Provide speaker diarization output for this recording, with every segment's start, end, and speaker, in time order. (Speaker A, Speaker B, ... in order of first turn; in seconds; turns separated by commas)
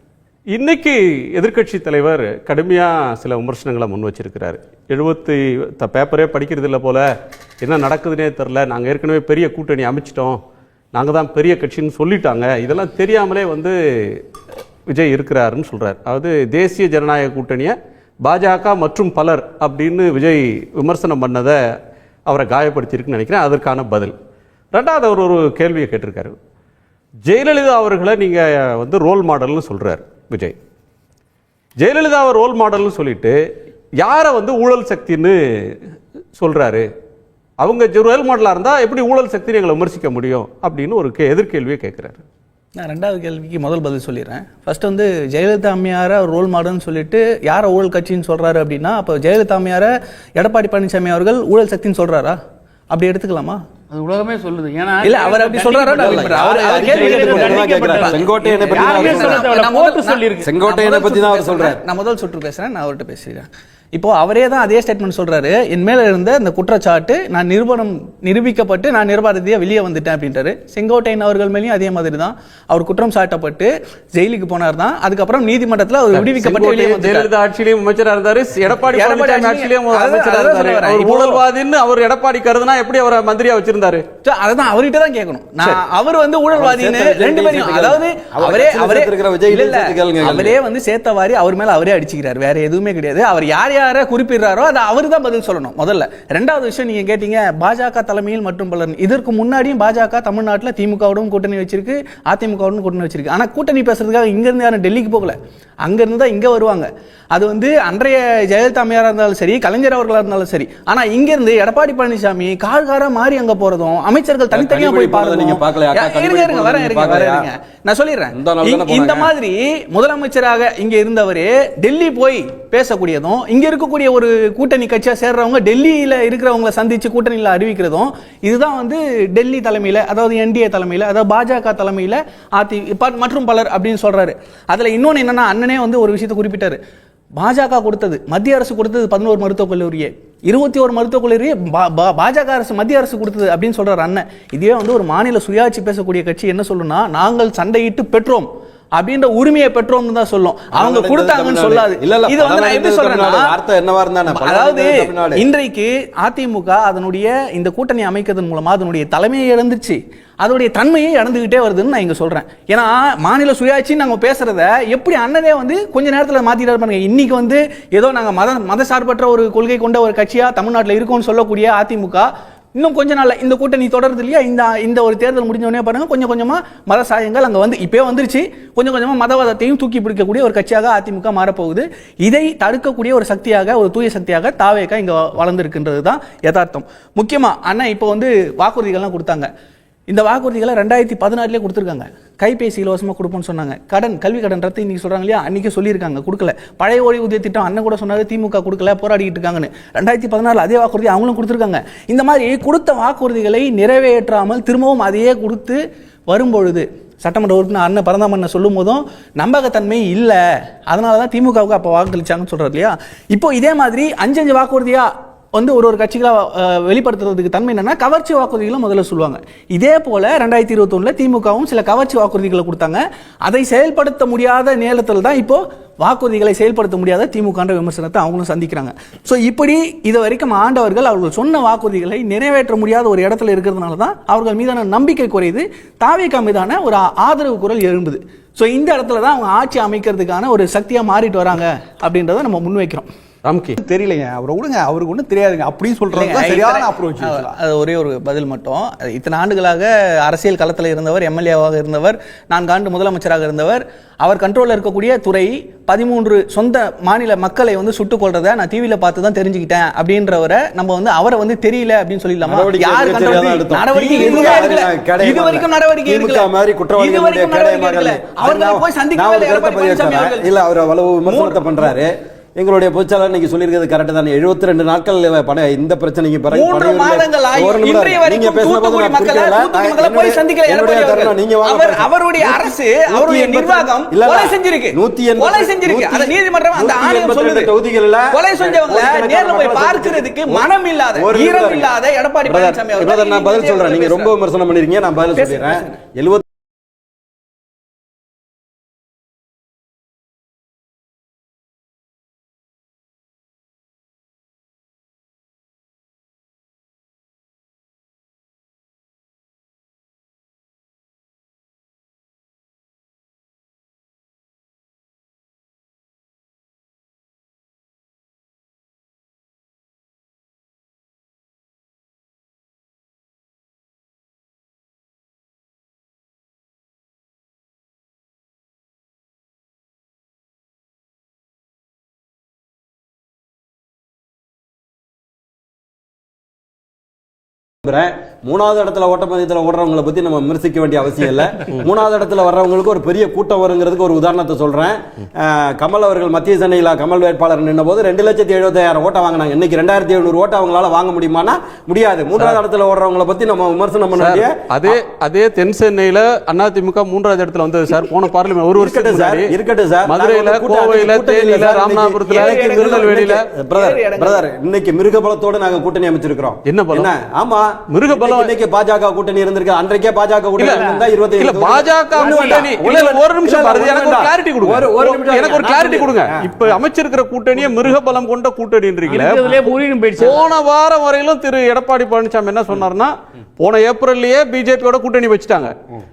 Speaker A: 0.5-7.0, Speaker A: 7.6-10.4, Speaker A: 10.9-14.2, Speaker A: 14.9-21.6, Speaker A: 22.3-24.1, Speaker A: 24.7-26.3, Speaker A: 27.2-30.5, Speaker A: 31.8-33.4, Speaker A: 34.0-36.9, Speaker A: 37.6-42.2, Speaker B: 42.8-52.4, Speaker B: 52.9-53.6, Speaker C: 53.9-60.5, Speaker B: 55.0-77.3, Speaker D: 55.9-59.5, Speaker D: 60.4-61.8, Speaker A: 76.1-84.0, Speaker B: 78.9-81.4, Speaker B: 84.2-136.8, Speaker D: 86.5-90.6, Speaker D: 114.5-117.5, Speaker D: 118.3-119.3, Speaker B: 137.4-153.6, Speaker D: 150.7-155.4, Speaker B: 154.3-189.5, Speaker B: 190.1-243.1, Speaker A: 243.4-243.8, Speaker E: 243.8-247.5, Speaker B: 246.1-270.5, Speaker D: 262.4-291.9, Speaker B: 271.2-271.9, Speaker B: 276.5-287.7, Speaker B: 288.3-294.3, Speaker D: 292.5-296.4, Speaker B: 295.3-296.0, Speaker D: 337.8-355.0, Speaker A: 354.1-359.5, Speaker D: 358.7-376.5, Speaker A: 360.1-363.4, Speaker B: 362.3-364.5, Speaker A: 366.6-367.1, Speaker A: 367.9-368.5, Speaker C: 370.6-371.0, Speaker A: 371.4-379.6, Speaker C: 372.1-372.7, Speaker C: 379.1-380.4, Speaker A: 380.2-385.7